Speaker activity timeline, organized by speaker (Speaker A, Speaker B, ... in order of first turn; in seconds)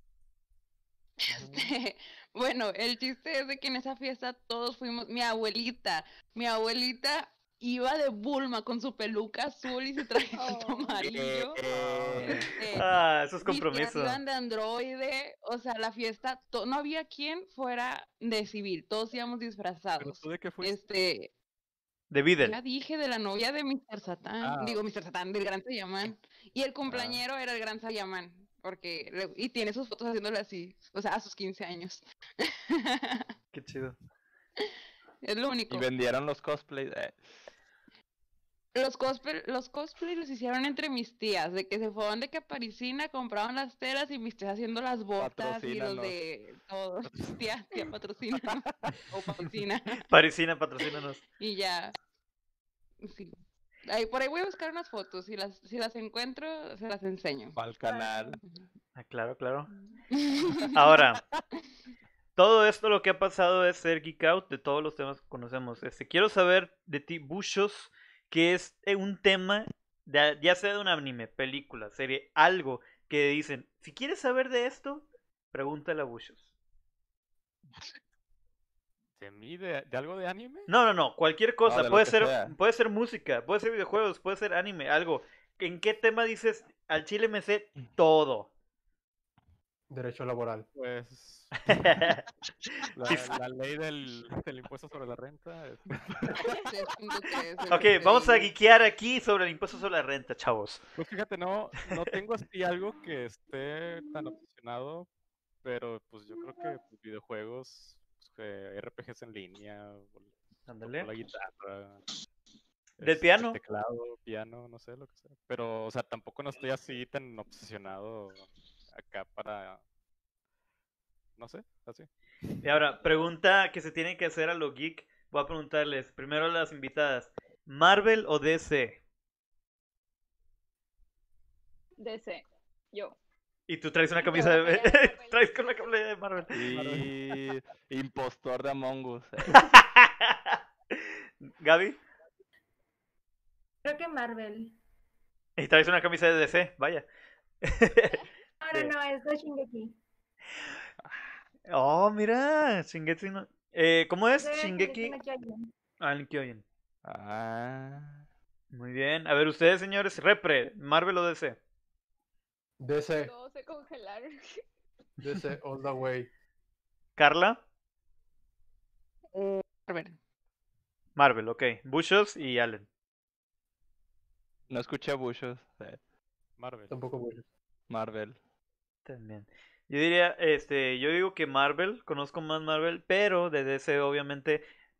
Speaker A: 1.2-11.6, 12.1-12.9, 13.4-21.3, 22.4-33.3, 35.2-35.9, 38.7-50.1, 51.3-51.9, 53.0-57.5, 58.4-58.6, 60.1-60.9, 96.5-98.5, 169.3-170.2
Speaker B: 10.3-11.0, 132.0-133.2, 134.1-135.9, 163.2-164.6
Speaker C: 11.0-12.4, 35.7-37.3, 45.2-46.2, 57.5-58.4, 81.7-82.5, 136.5-139.6, 151.0-151.3, 157.0-158.2, 174.7-176.0, 177.9-178.4
Speaker D: 11.7-12.5, 20.0-20.8, 24.4-24.8, 26.9-27.2, 79.2-80.7, 90.7-91.5, 92.9-96.2, 101.0-105.1, 105.6-112.0, 113.0-119.8, 121.4-122.1, 136.6-137.1, 176.6-176.9
Speaker E: 12.7-14.2, 22.1-22.6, 33.5-34.0, 50.1-51.2, 59.0-59.7, 60.7-61.2, 62.4-76.5, 80.7-88.5, 91.6-92.2, 92.8-93.3, 97.7-100.8, 110.7-111.1, 113.0-113.6, 122.6-129.0, 133.7-136.5, 139.5-141.0, 141.6-142.0, 145.6-147.0, 147.6-148.2, 151.7-155.2, 156.0-156.6, 158.7-161.6, 167.2-167.6, 171.2-172.9, 179.1-184.6
Speaker F: 57.9-58.3, 143.8-144.7, 148.6-149.9, 154.4-155.7
Speaker G: 89.9-90.7, 162.8-163.3, 165.2-166.3, 176.9-177.4